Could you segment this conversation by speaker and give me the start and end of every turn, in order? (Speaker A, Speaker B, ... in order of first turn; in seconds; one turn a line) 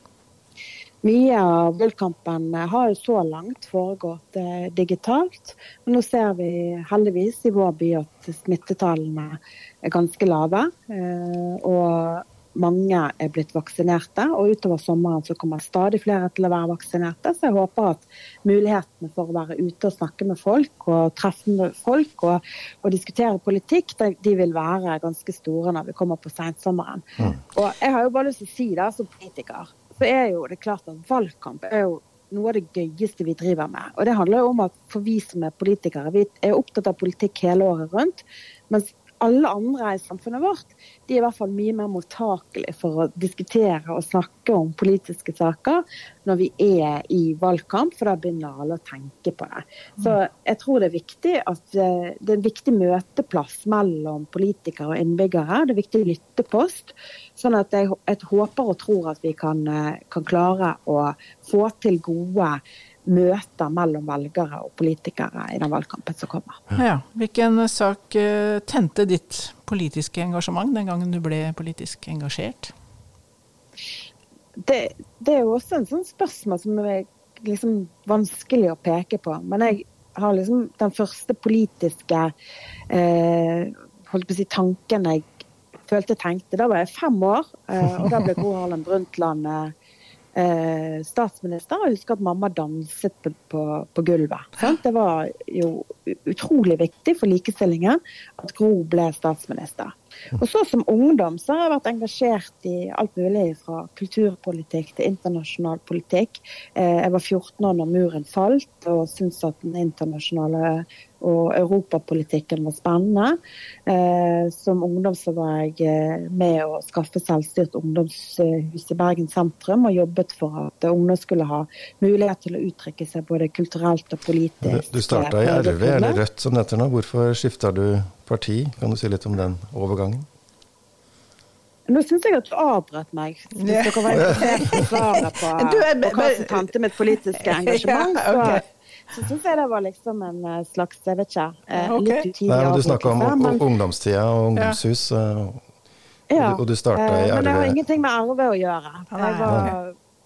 Speaker A: 1.0-66.6
Speaker B: 66.7-72.7
Speaker A: 74.6-82.3
Speaker A: 82.9-85.3
Speaker A: 85.9-89.7
Speaker A: 90.3-126.2
Speaker C: 124.6-130.3
Speaker A: 131.9-143.7
Speaker B: 133.5-136.7
Speaker B: 137.4-138.7
Speaker B: 141.7-142.3
Speaker C: 142.5-145.6
Speaker A: 146.3-149.9
Speaker C: 146.4-147.8
Speaker B: 149.1-149.8